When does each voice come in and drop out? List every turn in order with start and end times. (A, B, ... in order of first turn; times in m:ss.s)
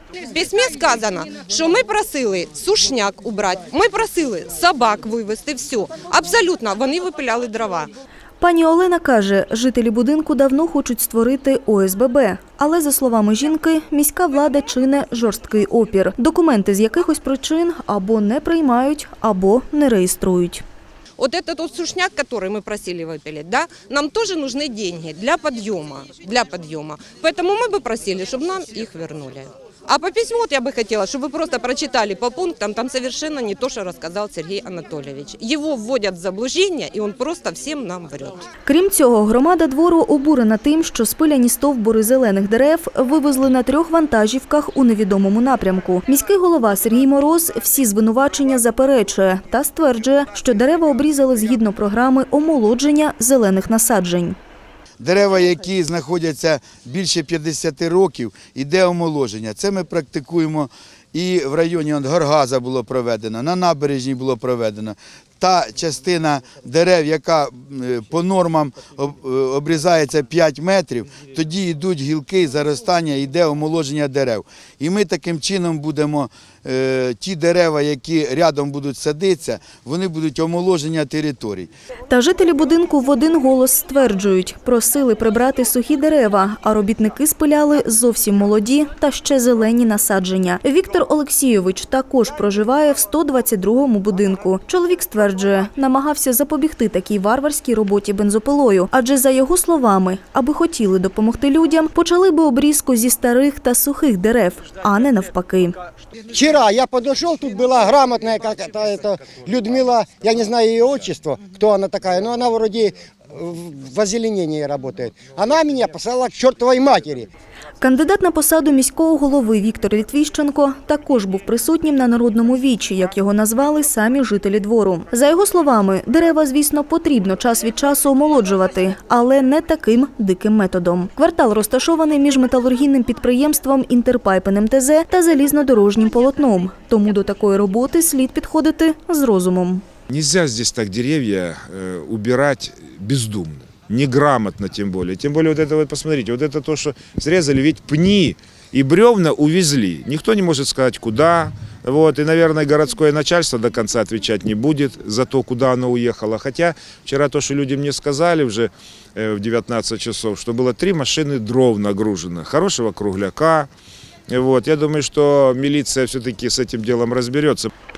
0:00.2-0:07.9 A
0:08.4-0:20.6 B
0:21.2-0:38.4 A
0:38.6-0:54.4 B
0:55.0-1:21.7 C
1:22.1-1:45.7 B
1:46.3-1:57.3 D
1:57.8-2:19.8 B
2:20.1-2:43.7 E
2:44.3-2:47.7 E